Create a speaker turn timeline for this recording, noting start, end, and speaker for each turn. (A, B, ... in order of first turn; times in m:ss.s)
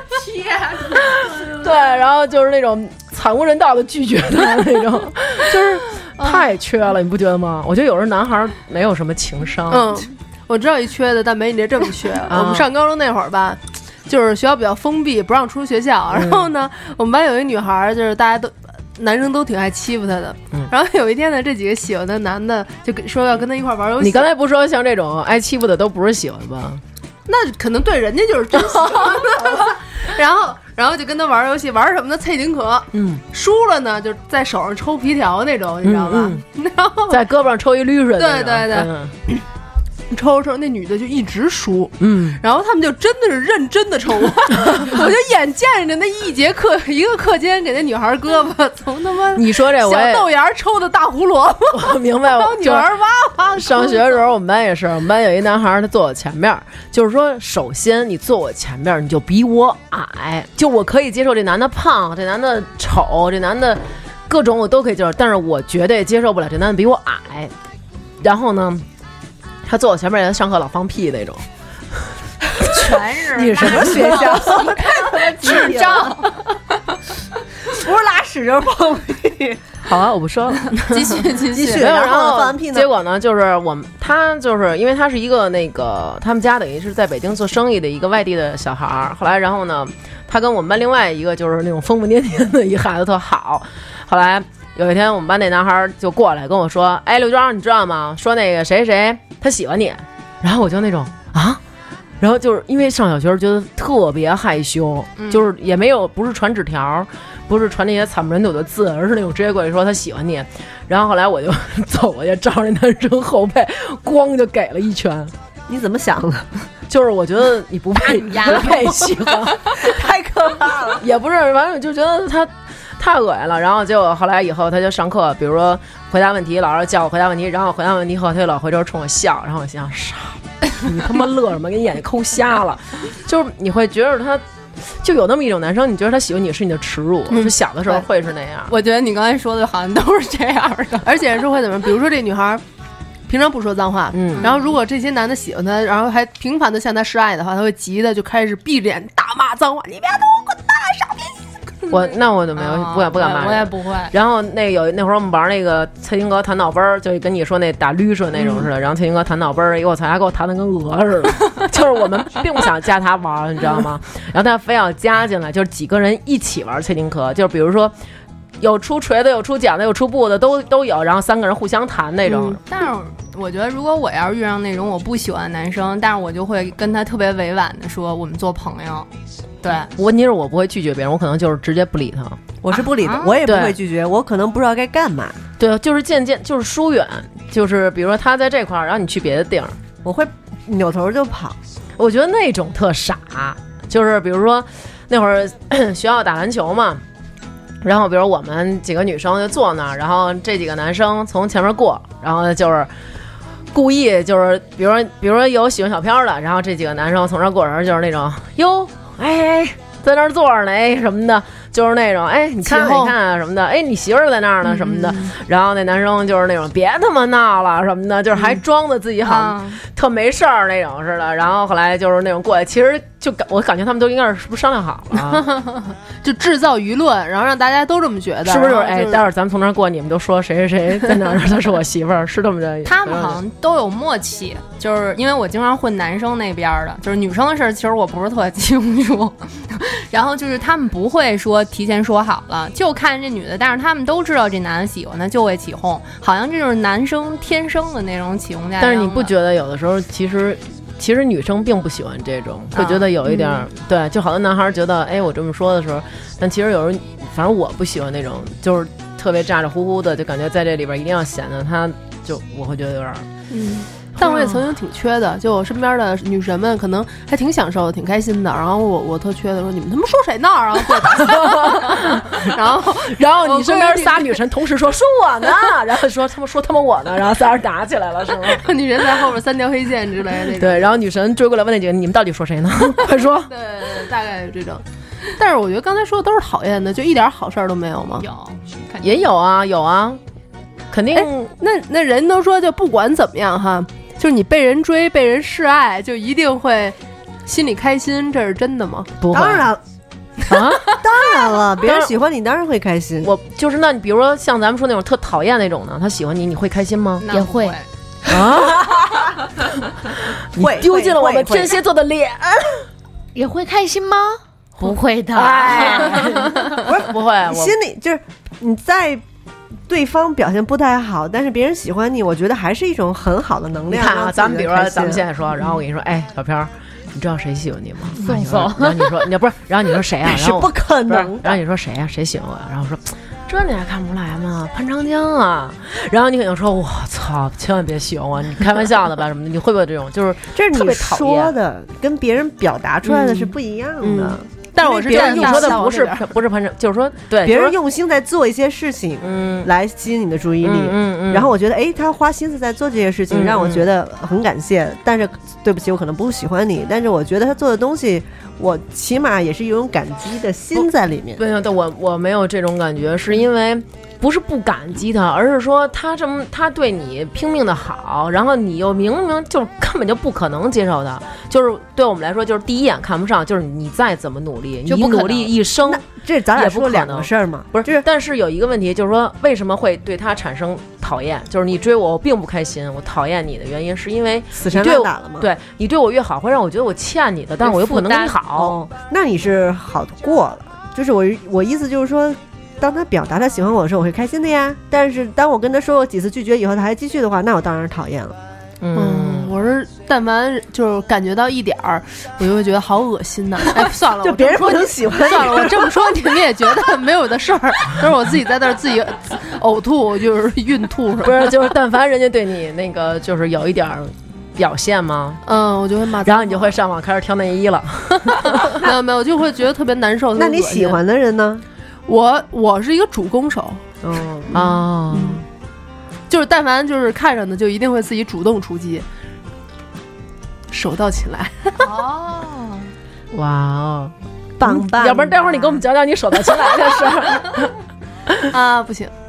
0:00.3-0:00.8 A
0:00.9-0:09.9 B
0:09.7-0:24.3 C
0:12.3-0:12.7 B
0:16.1-0:16.5 B
0:24.0-0:26.8 B
0:27.3-0:37.2 C
0:32.9-0:33.2 B
0:35.8-0:36.4 B
0:37.1-0:39.1 B
0:38.2-0:39.4 C
0:40.1-0:54.3 C
0:42.0-0:42.4 B
0:49.3-0:50.3 B
0:51.7-0:52.9 B
0:53.6-1:07.5 B
1:08.2-1:08.8 B
1:09.6-1:11.4 B
1:12.6-1:14.6 B
1:12.6-1:16.4 A
1:13.6-1:16.2 D
1:17.7-1:19.6 D
1:19.8-1:20.8 B
1:20.9-1:21.8 A
1:21.5-1:22.9 D
1:21.6-1:41.6 B
1:42.2-1:55.3 B
1:55.7-1:56.5 D
1:56.9-1:59.9 B
1:59.7-2:01.0 D
2:01.0-2:14.4 B
2:15.0-2:18.7 B
2:17.3-2:18.0 C
2:18.7-2:21.1 A
2:21.0-2:22.6 C
2:23.3-2:31.4 C
2:24.1-2:24.5 B
2:31.9-2:47.9 B
2:32.6-2:34.1 A
2:48.6-2:52.6 B
2:52.5-2:59.1 A
2:59.6-2:59.9 A
3:00.0-3:02.5 B
3:02.6-3:05.4 D
3:02.7-3:03.4 A
3:03.4-3:03.8 B
3:05.6-3:09.8 B
3:10.0-3:11.6 D
3:12.0-3:17.0 B
3:17.8-3:22.9 B
3:23.7-3:45.4 B
3:32.6-3:33.1 C
3:34.8-3:35.3 C
3:39.2-3:39.8 A
3:45.3-3:49.2 C
3:48.4-3:53.4 B
3:52.8-4:09.3 A
4:08.8-4:23.2 B
4:12.7-4:13.0 A
4:13.3-4:13.5 C
4:23.5-4:34.4 C
4:24.2-4:24.6 B
4:31.2-4:32.4 B
4:33.0-4:38.6 B
4:38.5-4:40.9 C
4:40.6-4:43.5 B
4:43.5-4:48.2 C
4:48.2-4:49.1 A
4:49.0-4:50.2 B
4:50.9-4:51.5 B
4:51.1-4:59.1 C
4:59.2-4:59.7 B
4:59.3-4:59.8 D
5:00.5-5:01.1 B
5:00.9-5:03.3 D
5:01.8-5:02.1 B
5:03.2-5:07.2 B
5:07.2-5:07.9 A
5:07.3-5:07.8 E
5:08.3-5:09.4 B
5:10.5-5:12.8 B
5:10.6-5:11.8 D
5:13.3-5:16.2 E
5:15.3-5:17.7 B
5:16.9-5:19.2 D
5:19.9-5:25.2 D
5:23.9-5:41.5 B
5:28.2-5:29.1 E
5:30.2-5:31.6 D
5:40.5-5:45.8 D
5:44.0-5:46.3 C
5:45.1-5:47.8 B
5:47.4-6:01.4 D
5:49.2-5:49.7 B
5:50.6-5:51.5 B
5:53.3-5:53.9 B
6:00.8-6:16.0 B
6:14.9-6:18.0 D
6:16.5-6:28.8 B
6:24.5-6:25.5 D
6:27.7-6:28.3 E
6:28.5-6:38.4 D
6:38.8-6:39.5 B
6:38.9-6:51.5 C
6:44.2-6:46.4 D
6:51.2-6:55.4 B
6:55.4-6:56.8 C
6:56.2-6:58.8 B
6:58.4-7:01.0 C
7:00.4-7:01.6 D
7:02.1-7:03.8 C
7:04.0-7:04.5 D
7:04.5-7:05.4 C
7:04.5-7:05.4 B
7:06.3-7:09.0 C
7:10.7-7:11.9 C
7:11.8-7:12.9 A
7:13.3-7:17.7 B
7:14.6-7:15.8 D
7:18.5-7:19.1 C